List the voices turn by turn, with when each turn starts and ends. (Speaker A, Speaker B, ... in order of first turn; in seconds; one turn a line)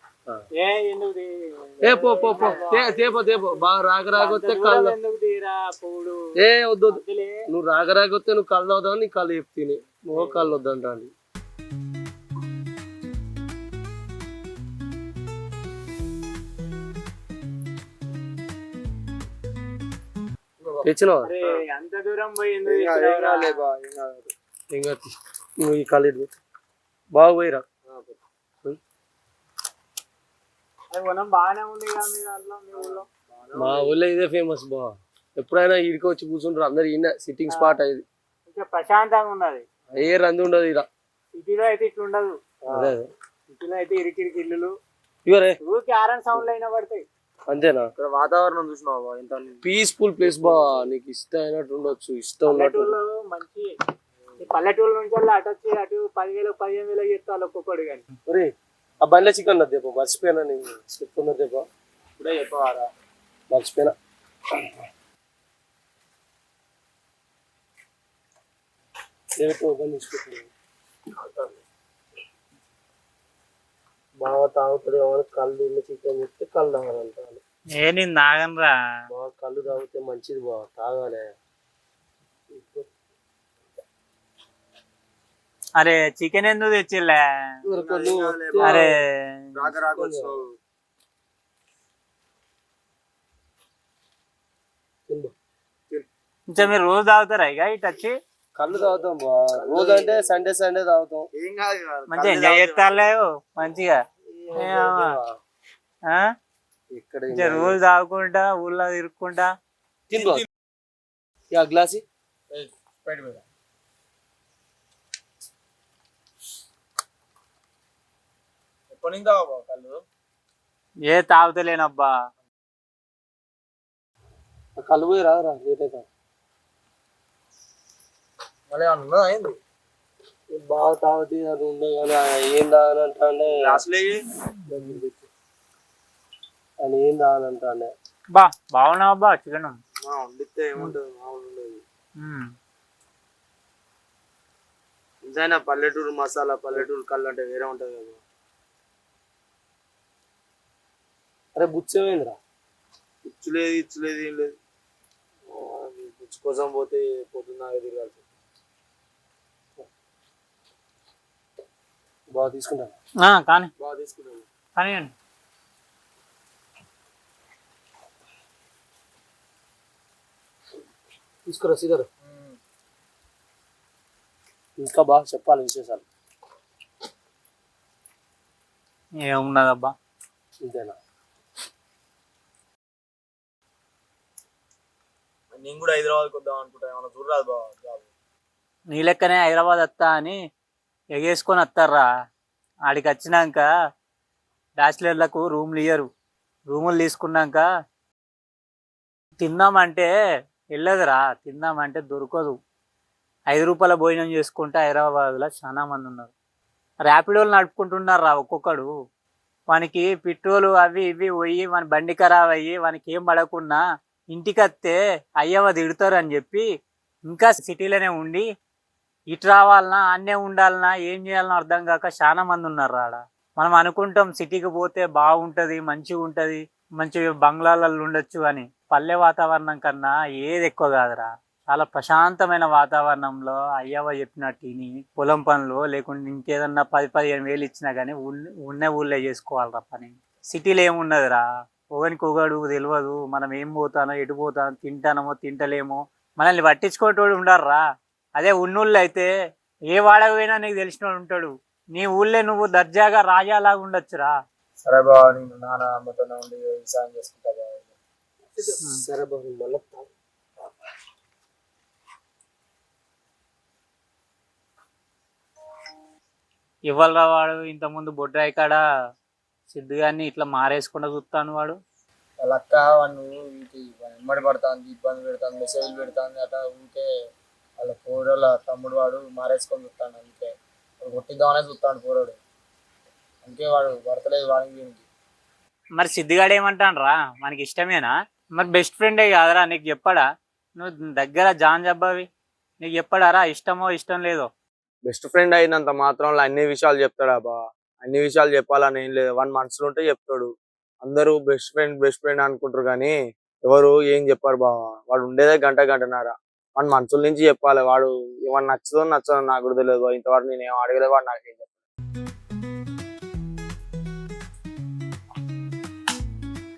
Speaker A: 0.6-6.2
Speaker B: 1.8-5.0
Speaker B: 6.4-11.1
Speaker A: 6.9-7.5
Speaker A: 10.2-10.5
Speaker B: 20.8-21.3
Speaker A: 21.2-23.6
Speaker C: 22.6-24.3
Speaker B: 24.7-26.3
Speaker B: 27.1-27.6
Speaker C: 27.9-28.2
Speaker A: 30.9-33.1
Speaker C: 32.8-34.0
Speaker B: 33.6-38.0
Speaker A: 37.5-37.8
Speaker A: 38.5-39.6
Speaker B: 40.0-40.9
Speaker A: 41.3-42.3
Speaker B: 42.7-43.1
Speaker A: 43.5-44.7
Speaker B: 45.2-45.6
Speaker A: 45.6-47.1
Speaker B: 47.5-47.9
Speaker C: 48.0-49.7
Speaker B: 49.6-53.0
Speaker C: 50.2-50.8
Speaker A: 52.5-53.7
Speaker A: 54.4-58.0
Speaker B: 59.0-61.7
Speaker C: 62.2-62.9
Speaker B: 63.5-63.9
Speaker B: 69.4-70.5
Speaker C: 71.2-71.6
Speaker B: 74.2-77.4
Speaker A: 77.8-78.7
Speaker B: 79.1-81.3
Speaker B: 82.5-82.8
Speaker A: 85.8-87.2
Speaker B: 87.6-88.9
Speaker C: 87.7-88.8
Speaker A: 88.6-89.3
Speaker C: 89.5-90.5
Speaker B: 89.8-90.3
Speaker B: 95.1-95.3
Speaker A: 96.5-98.2
Speaker B: 98.6-101.3
Speaker C: 98.7-99.0
Speaker C: 99.6-100.4
Speaker C: 101.3-103.1
Speaker A: 102.1-104.0
Speaker B: 104.3-105.4
Speaker A: 104.5-105.2
Speaker B: 106.9-107.8
Speaker A: 107.3-109.5
Speaker B: 110.1-110.4
Speaker C: 110.1-110.4
Speaker B: 111.5-112.0
Speaker C: 112.5-113.4
Speaker C: 118.9-120.0
Speaker A: 121.1-122.1
Speaker B: 124.8-126.1
Speaker C: 128.7-129.6
Speaker B: 130.5-133.8
Speaker C: 133.5-134.2
Speaker B: 134.7-135.3
Speaker B: 136.8-137.9
Speaker A: 138.3-139.8
Speaker C: 140.0-141.8
Speaker A: 142.2-142.5
Speaker C: 145.2-148.2
Speaker B: 151.5-152.4
Speaker C: 153.2-154.5
Speaker C: 155.5-158.2
Speaker B: 162.3-162.9
Speaker A: 163.2-163.7
Speaker C: 163.8-164.5
Speaker A: 164.8-165.1
Speaker B: 171.5-172.1
Speaker C: 172.2-172.6
Speaker B: 174.8-176.0
Speaker A: 179.3-179.9
Speaker B: 180.6-180.9
Speaker C: 185.5-188.1
Speaker A: 188.9-190.4
Speaker A: 191.2-192.1
Speaker A: 192.9-193.7
Speaker A: 194.8-196.1
Speaker A: 196.7-197.7
Speaker A: 199.4-200.1
Speaker A: 200.8-202.5
Speaker A: 203.5-206.3
Speaker A: 207.0-208.9
Speaker A: 209.7-213.8
Speaker A: 214.3-216.7
Speaker A: 217.3-218.4
Speaker A: 219.3-241.4
Speaker A: 241.9-247.8
Speaker A: 248.4-249.3
Speaker A: 249.9-254.3
Speaker C: 254.8-257.9
Speaker B: 258.6-260.1
Speaker A: 266.9-268.8
Speaker A: 269.7-271.8
Speaker C: 272.4-277.0
Speaker C: 277.8-282.4
Speaker C: 283.4-285.1
Speaker A: 286.0-290.2
Speaker A: 290.8-292.2
Speaker A: 292.8-294.5
Speaker C: 295.1-300.5
Speaker C: 301.0-303.1
Speaker C: 303.6-311.7